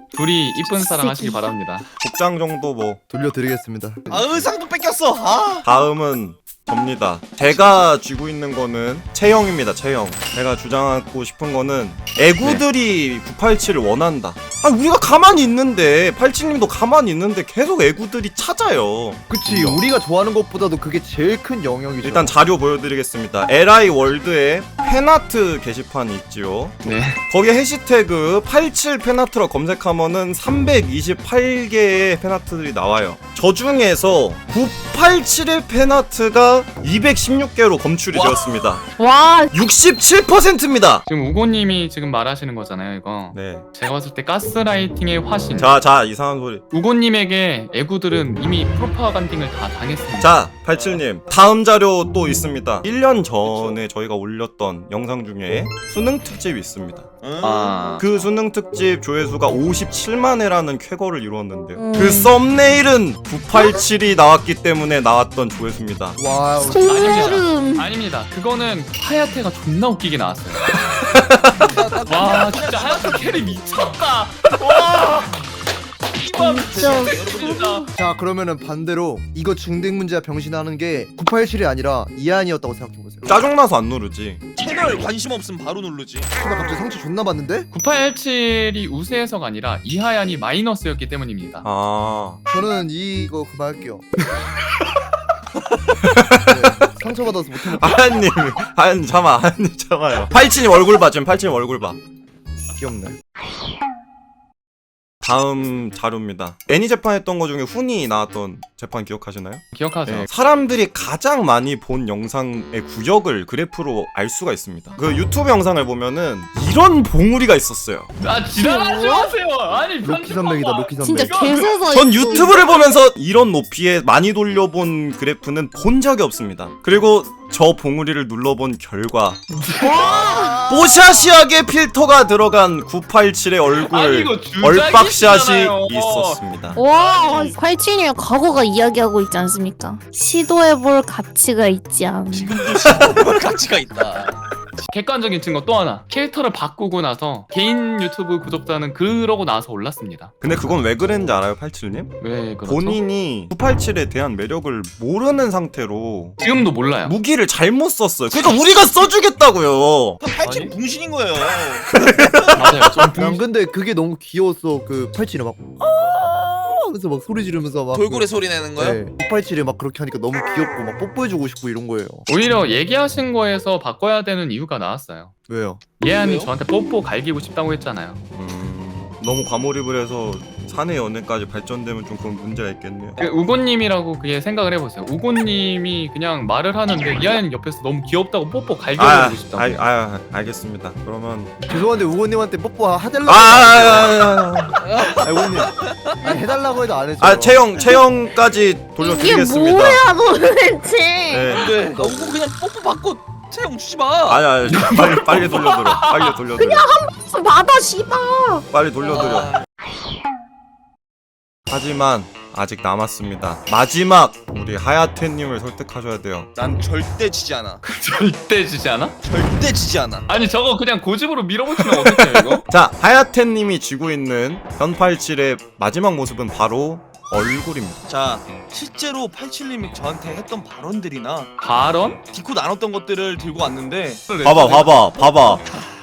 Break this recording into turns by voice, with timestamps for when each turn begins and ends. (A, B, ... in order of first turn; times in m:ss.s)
0:00.1-0:01.9 A
0:00.8-0:01.4 B
0:02.0-0:03.0 C
0:03.1-0:04.4 D
0:04.1-0:05.7 E
0:05.6-0:19.8 C
0:07.5-0:07.8 E
0:19.3-0:22.3 D
0:22.0-0:38.8 C
0:26.8-0:27.2 A
0:38.1-0:38.5 E
0:39.0-0:39.6 B
0:39.5-0:41.0 C
0:41.0-0:45.7 A
0:43.3-0:43.6 C
0:45.5-0:46.6 C
0:46.7-0:50.4 A
0:50.2-0:57.1 C
0:57.2-0:57.9 E
0:57.4-0:58.0 A
0:58.0-1:06.2 C
1:01.7-1:02.3 B
1:03.5-1:03.8 B
1:06.2-1:07.3 D
1:06.6-1:07.8 B
1:06.8-1:10.8 A
1:11.1-1:11.5 C
1:11.4-1:13.6 E
1:12.1-1:15.4 A
1:16.2-1:17.6 E
1:16.3-1:17.9 B
1:16.7-1:17.9 A
1:18.0-1:23.4 D
1:23.2-1:24.4 C
1:24.6-1:26.3 E
1:26.4-1:27.7 D
1:27.7-1:31.7 A
1:31.6-1:32.4 C
1:32.5-1:34.0 D
1:36.0-1:36.8 C
1:36.5-1:38.1 D
1:37.7-1:42.0 C
1:42.7-1:43.2 D
1:45.2-1:58.1 C
1:49.7-1:50.3 A
1:58.2-2:01.8 A
1:58.6-1:59.3 B
2:00.0-2:01.7 D
2:01.0-2:02.8 B
2:01.8-2:09.4 C
2:09.5-2:10.5 A
2:09.8-2:11.3 E
2:09.9-2:10.6 B
2:10.6-2:16.8 C
2:13.7-2:16.4 A
2:16.7-2:22.6 B
2:16.9-2:17.6 A
2:22.3-2:24.4 E
2:24.8-2:30.3 A
2:30.4-2:36.4 C
2:32.2-2:33.0 A
2:36.4-2:37.2 A
2:37.0-2:40.2 C
2:40.2-2:42.7 E
2:40.4-2:40.7 D
2:41.9-2:43.0 C
2:42.5-2:43.4 A
2:43.1-2:52.2 D
2:47.9-2:49.0 E
2:52.3-2:55.3 A
2:55.5-2:55.8 D
2:56.0-2:58.2 A
2:56.2-2:56.5 E
2:58.3-3:03.2 C
3:03.2-3:09.8 A
3:09.0-3:11.6 C
3:11.7-3:14.2 D
3:13.2-3:14.8 C
3:14.8-3:16.4 E
3:15.0-3:17.7 D
3:17.2-3:20.0 C
3:19.0-3:21.6 B
3:21.3-3:21.7 C
3:21.5-3:24.5 E
3:21.7-3:22.4 D
3:24.2-3:26.9 C
3:24.7-3:26.4 A
3:26.5-3:29.2 B
3:28.7-3:29.6 C
3:29.0-3:29.6 E
3:31.7-3:36.5 C
3:36.6-3:37.8 E
3:37.8-3:39.1 A
3:39.2-3:40.3 E
3:40.3-3:42.6 A
3:42.7-3:48.0 C
3:48.1-3:51.5 E
3:51.6-3:52.2 A
3:52.3-3:54.2 E
3:54.3-3:55.2 A
3:54.4-3:55.6 C